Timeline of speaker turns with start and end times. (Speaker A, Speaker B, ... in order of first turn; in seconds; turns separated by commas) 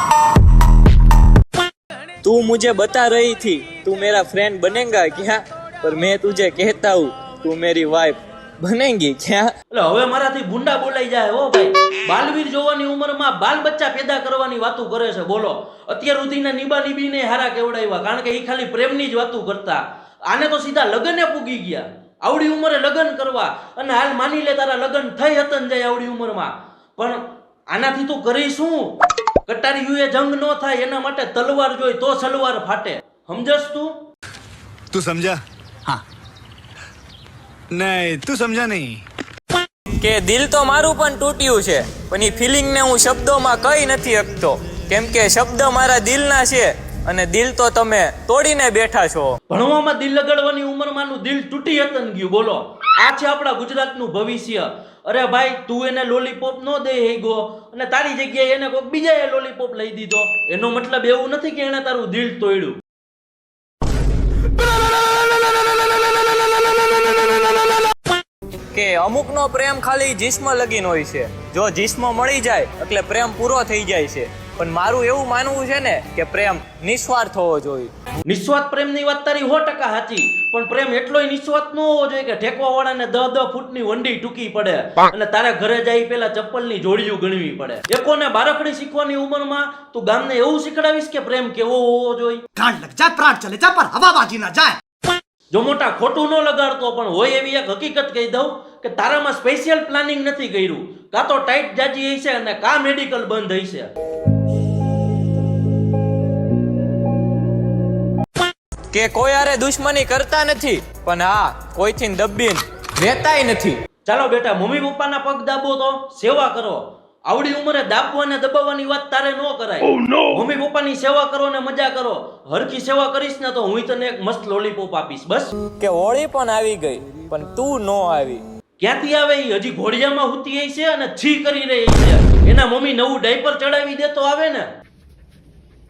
Speaker A: 2.2-9.5, Speaker B: 9.7-34.0, Speaker C: 34.9-36.0, Speaker C: 37.7-39.0, Speaker A: 40.0-49.4, Speaker B: 49.5-62.8, Speaker A: 68.7-77.9, Speaker B: 78.2-92.4, Speaker D: 92.6-94.8, Speaker B: 95.5-103.9, Speaker A: 108.9-113.8, Speaker B: 114.0-125.5, Speaker A: 125.8-128.4, Speaker B: 128.8-134.7